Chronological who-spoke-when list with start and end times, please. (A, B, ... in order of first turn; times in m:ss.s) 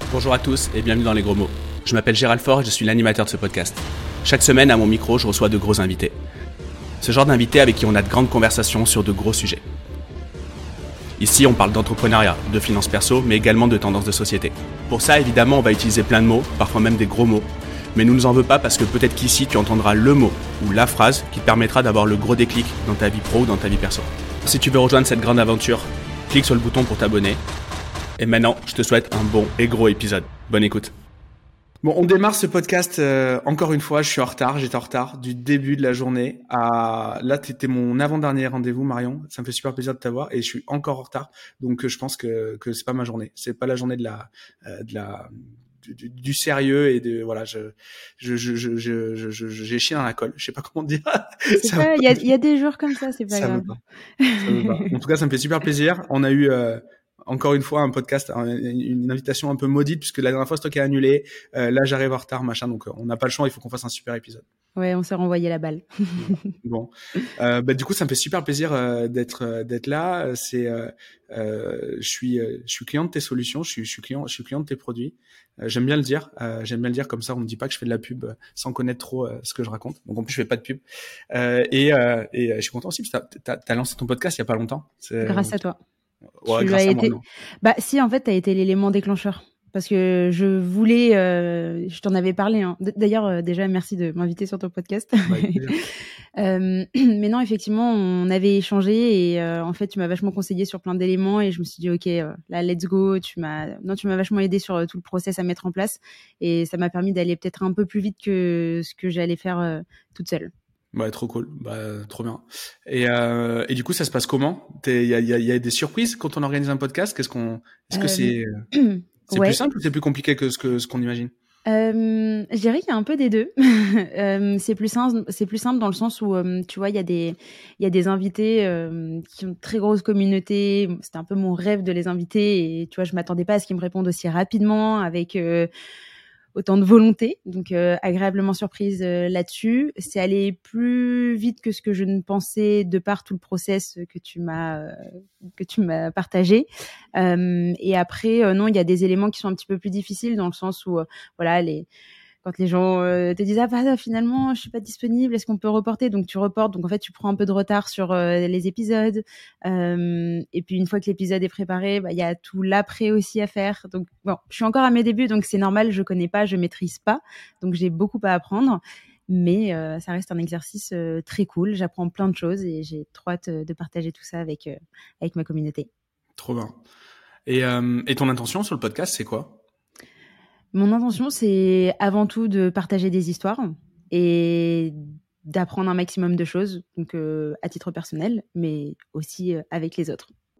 0:00.1-0:06.2 A
0:07.0-0:09.6 A
0:11.2-0:27.4 A
0:28.2-0:30.9 A
0:31.8-0:52.2 A
0:51.5-0:54.9 B
0:53.3-0:53.8 A
0:54.4-1:04.4 A
1:04.8-1:06.5 B
1:06.2-1:25.6 A
1:25.2-1:25.8 B
1:26.4-1:27.2 A
1:26.5-1:35.9 B
1:35.3-1:35.8 A
1:36.4-1:50.5 B
1:50.9-1:58.5 A
1:57.9-1:59.6 B
1:59.3-2:01.3 A
2:01.7-2:15.7 B
2:16.6-2:31.9 B
2:32.4-2:55.9 B
2:56.4-2:56.8 A
2:57.5-2:59.6 A
3:00.7-3:10.3 B